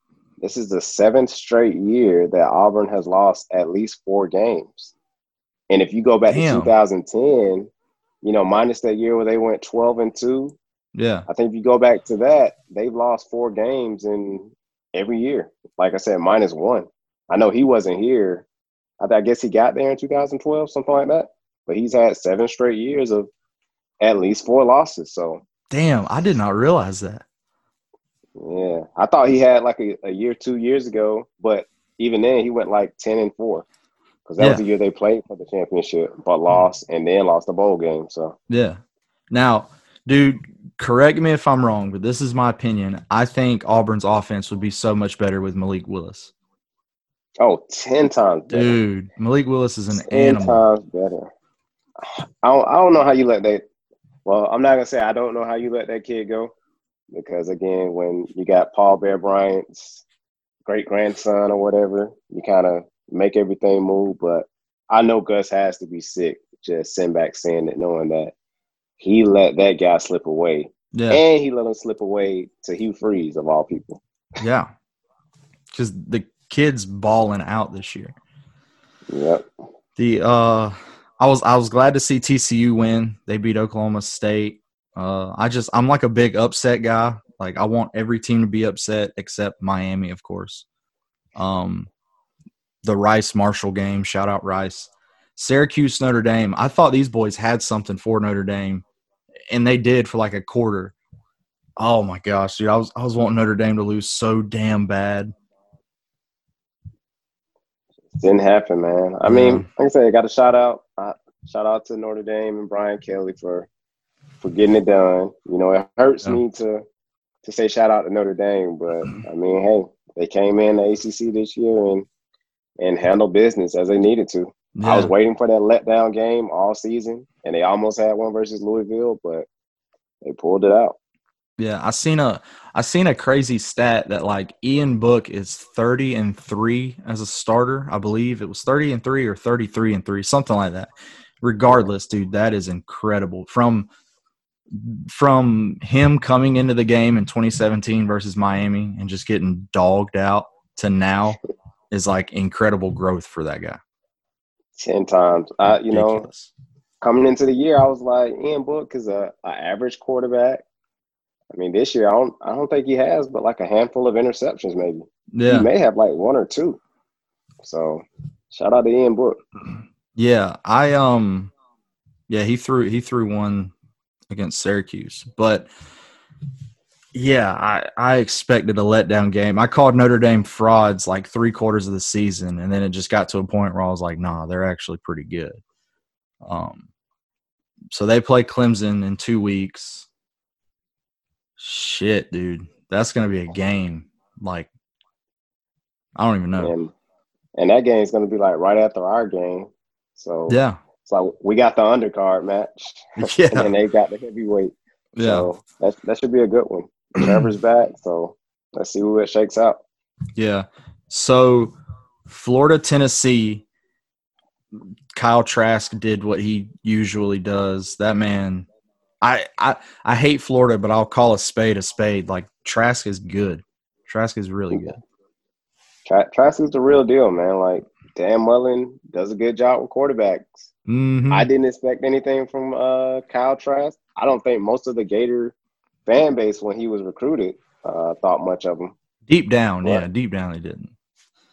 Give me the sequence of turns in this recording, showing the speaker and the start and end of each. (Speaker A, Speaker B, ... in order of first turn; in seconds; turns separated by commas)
Speaker A: 0.4-4.9, Speaker A: 5.7-7.7, Speaker B: 6.3-6.7, Speaker A: 8.2-10.6, Speaker B: 10.9-11.2, Speaker A: 11.3-18.4, Speaker A: 19.0-23.3, Speaker A: 24.0-25.4, Speaker B: 25.7-27.2, Speaker A: 28.4-33.6, Speaker A: 34.3-38.4, Speaker B: 38.5-46.3, Speaker A: 47.4-48.8, Speaker B: 48.5-50.6, Speaker A: 49.9-51.3, Speaker A: 52.0-53.6, Speaker A: 54.2-56.5, Speaker A: 57.1-60.0, Speaker A: 60.6-68.3, Speaker A: 69.0-74.0, Speaker B: 70.9-71.2, Speaker B: 74.4-74.7, Speaker B: 75.7-78.2, Speaker A: 79.1-79.4, Speaker B: 80.0-90.6, Speaker B: 91.3-91.9, Speaker B: 92.8-98.8, Speaker B: 99.5-100.9, Speaker B: 101.8-105.3, Speaker A: 108.2-113.7, Speaker B: 109.2-109.7, Speaker A: 114.4-116.8, Speaker A: 117.4-122.0, Speaker A: 122.8-129.5, Speaker B: 124.8-125.1, Speaker A: 130.2-131.0, Speaker B: 131.6-140.9, Speaker B: 141.4-143.9, Speaker B: 144.7-151.4, Speaker B: 151.9-153.8, Speaker A: 154.7-156.2, Speaker B: 155.9-156.5, Speaker A: 157.0-160.6, Speaker A: 161.5-166.8, Speaker B: 165.3-165.7, Speaker A: 167.6-169.4, Speaker B: 170.2-171.5, Speaker B: 172.3-173.7, Speaker B: 174.3-175.7, Speaker B: 177.1-185.6, Speaker B: 186.4-186.8, Speaker B: 187.9-190.1, Speaker B: 191.6-194.7, Speaker B: 196.2-196.7, Speaker A: 196.6-196.9, Speaker A: 197.6-209.8, Speaker B: 200.5-200.8, Speaker B: 203.2-203.7, Speaker B: 205.2-205.5, Speaker B: 207.2-207.5, Speaker B: 210.3-211.7, Speaker B: 212.2-213.6, Speaker B: 214.8-218.7, Speaker B: 219.2-225.0, Speaker A: 224.7-224.9, Speaker A: 226.1-230.7, Speaker B: 230.9-231.5, Speaker A: 231.3-235.5, Speaker A: 236.1-238.9, Speaker B: 239.3-240.9